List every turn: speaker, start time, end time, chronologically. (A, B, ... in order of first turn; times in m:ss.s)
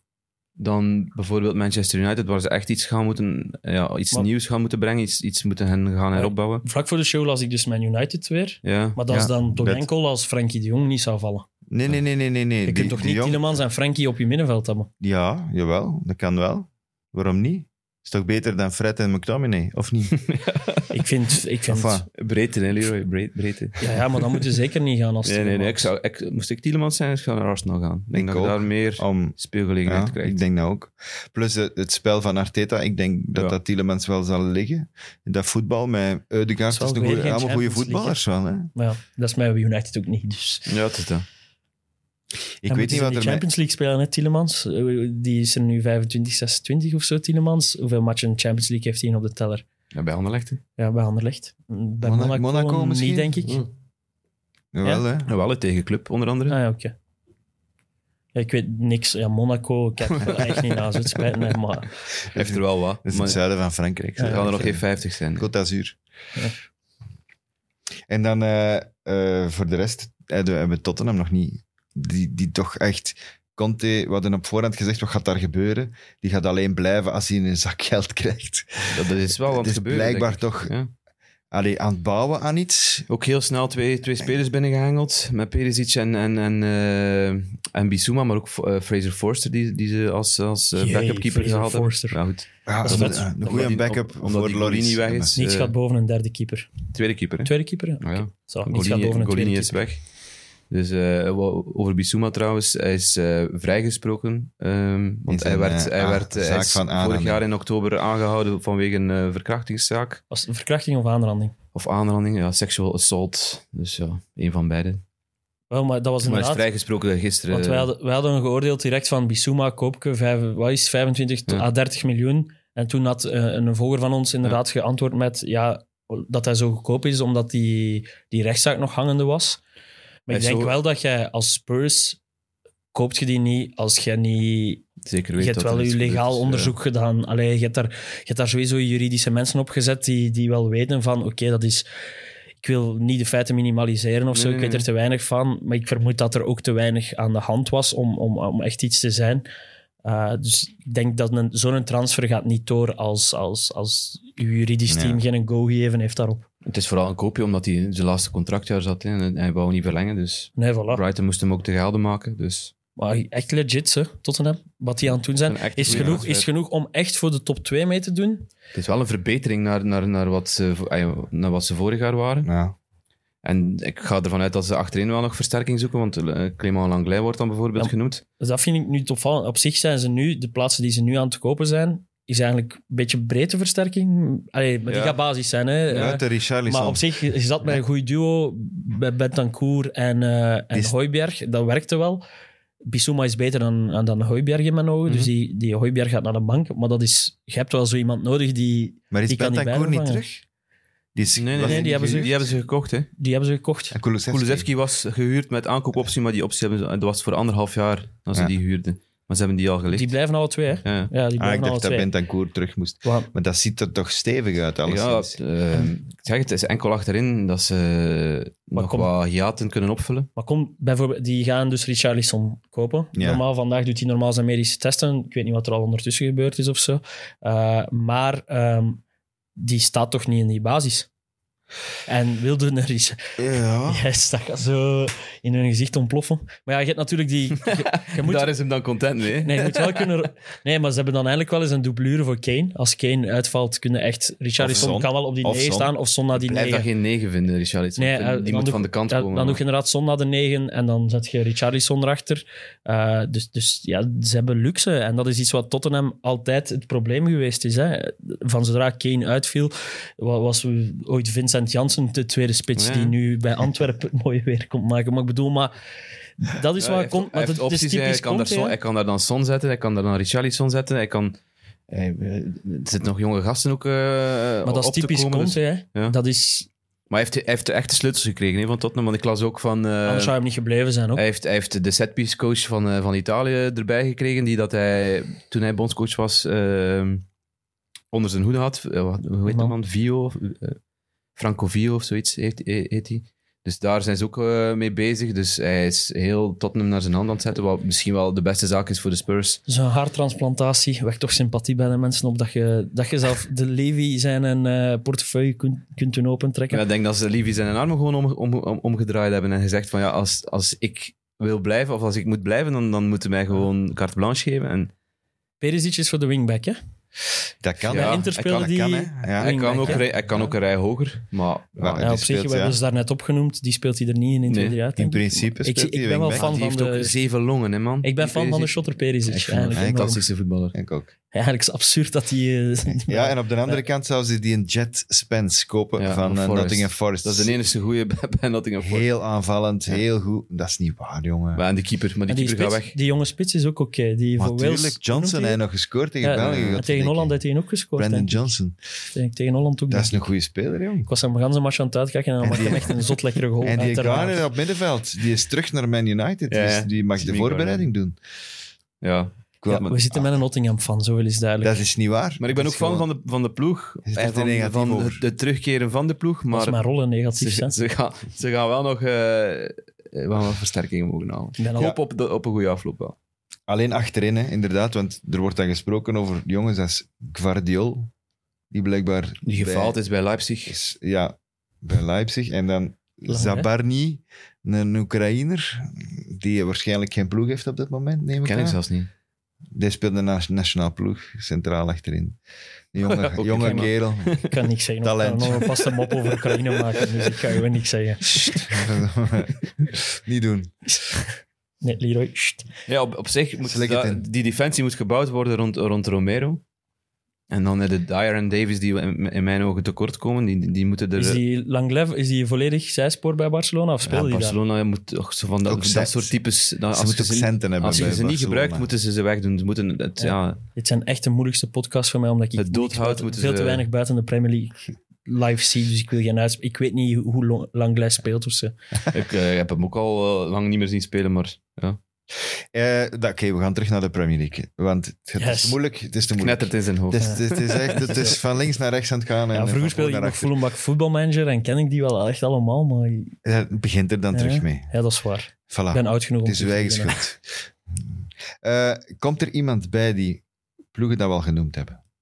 0:00.6-0:06.6 A
0:06.1-0:11.4 B
0:08.6-0:09.0 A
0:09.1-0:09.8 C
0:11.7-0:13.4 C
0:12.6-0:14.9 B
0:15.0-0:20.2 C
0:20.2-0:20.9 A
0:20.9-0:22.0 B
0:21.7-0:22.1 C
0:22.1-0:24.4 A
0:23.8-0:25.9 B
0:25.2-0:30.4 A
0:28.1-0:38.7 C
0:36.7-0:38.2 B
0:38.7-0:40.7 B
0:40.7-0:41.2 A
0:42.6-0:43.4 C
0:42.7-0:49.6 B
0:49.9-0:50.6 A
0:50.8-0:53.6 B
0:52.0-0:53.5 C
0:54.7-0:55.3 C
0:55.2-0:56.6 A
0:56.5-0:56.9 B
0:58.3-1:01.9 B
1:00.2-1:00.8 A
1:02.3-1:03.4 A
1:02.3-1:06.0 C
1:04.2-1:04.4 B
1:04.2-1:05.5 A
1:08.1-1:20.7 C
1:18.9-1:20.9 A
1:21.5-1:23.1 C
1:23.1-1:35.7 A
1:30.8-1:32.2 B
1:32.6-1:35.4 C
1:32.8-1:33.3 B
1:35.3-1:36.7 B
1:36.9-1:40.1 A
1:37.4-1:39.8 B
1:40.7-1:50.2 A
1:45.3-1:47.4 C
1:50.3-1:51.5 B
1:51.7-1:55.0 A
1:55.7-1:56.6 B
1:56.2-1:57.9 A
1:57.5-2:09.6 B
2:10.3-2:12.2 B
2:10.3-2:10.8 A
2:12.9-2:14.8 B
2:15.0-2:16.7 A
2:15.4-2:21.8 B
2:22.6-2:29.4 B
2:24.3-2:24.8 A
2:30.0-2:36.4 B
2:34.9-2:35.2 C
2:36.6-2:42.7 A
2:40.6-2:41.0 B
2:43.0-2:48.5 B
2:45.4-2:46.5 A
2:45.9-2:46.2 C
2:48.7-2:52.5 A
2:52.4-2:52.8 C
2:53.4-2:58.2 A
2:57.8-3:12.2 B
3:04.9-3:05.2 A
3:05.9-3:07.1 C
3:12.8-3:20.2 B
3:19.1-3:20.4 C
3:21.1-3:22.5 C
3:21.3-3:23.1 A
3:21.6-3:22.3 B
3:23.2-3:24.0 B
3:23.9-3:24.7 C
3:24.3-3:30.1 A
3:29.9-3:32.1 B
3:30.8-3:31.1 A
3:31.4-3:35.4 C
3:34.8-3:40.3 A
3:38.7-3:39.1 B
3:40.4-3:49.0 B
3:43.1-3:43.4 C
3:49.6-3:51.1 B
3:52.1-3:58.5 B
3:53.4-3:54.0 C
3:57.6-4:00.1 A
3:59.4-4:06.9 B
4:04.6-4:05.9 C
4:06.4-4:09.6 A
4:08.0-4:25.7 B
4:22.8-4:23.2 A
4:26.4-4:28.8 B
4:26.8-4:31.4 A
4:31.9-4:36.2 A
4:34.6-4:36.7 B
4:37.1-4:40.3 A
4:40.0-4:41.2 B
4:41.1-4:47.2 A
4:48.1-4:50.8 A
4:49.4-4:49.7 B
4:51.4-4:59.6 A
4:59.7-5:06.8 B
5:06.7-5:14.9 A
5:15.6-5:16.8 B
5:17.6-5:20.0 C
5:17.9-5:18.6 A
5:17.9-5:20.1 B
5:19.4-5:22.1 A
5:21.8-5:22.8 C
5:22.0-5:27.1 B
5:24.5-5:24.8 A
5:25.0-5:26.5 C
5:26.3-5:30.7 A
5:28.0-5:30.2 B
5:29.7-5:30.1 C
5:30.7-5:31.1 C
5:31.3-5:33.8 B
5:33.1-5:37.5 C
5:36.0-5:39.0 A
5:38.8-5:41.6 C
5:41.5-5:42.9 A
5:42.3-5:45.6 B
5:44.4-5:47.4 C
5:46.2-5:48.5 B
5:46.4-5:46.8 A
5:48.0-5:48.8 C
5:49.1-5:50.2 B
5:49.9-5:51.1 C
5:51.0-5:54.5 B
5:52.4-5:53.0 C
5:53.6-5:58.2 C
5:56.5-5:57.9 A
5:59.0-6:00.0 A
5:59.6-6:00.3 C
5:59.7-6:01.8 B
6:01.6-6:03.1 C
6:02.4-6:06.8 A
6:04.1-6:05.2 C
6:06.5-6:07.7 B
6:07.4-6:13.1 A
6:11.6-6:11.9 B
6:13.7-6:18.1 C
6:18.7-6:20.0 C
6:19.4-6:20.8 A
6:20.7-6:28.8 C
6:23.3-6:23.7 B
6:28.4-6:29.1 A
6:29.7-6:32.4 C
6:32.9-6:34.4 C
6:33.0-6:34.6 A
6:34.4-6:38.7 B
6:35.0-6:35.7 C
6:37.0-6:37.3 A
6:38.3-6:38.9 A
6:38.7-6:40.8 C
6:41.8-6:42.7 B
6:42.9-6:46.6 A
6:43.6-6:44.2 C
6:47.5-6:51.4 A
6:51.2-6:54.6 B
6:54.1-7:00.6 A
6:55.6-6:56.3 C
6:56.9-6:58.9 C
7:00.2-7:08.7 B
7:02.6-7:03.8 A
7:09.1-7:12.0 A
7:12.3-7:20.5 C
7:15.4-7:15.8 B
7:16.4-7:18.4 A
7:18.0-7:18.3 B
7:19.5-7:23.3 B
7:23.4-7:24.9 C
7:24.3-7:27.2 B
7:25.7-7:30.4 C
7:30.9-7:32.0 C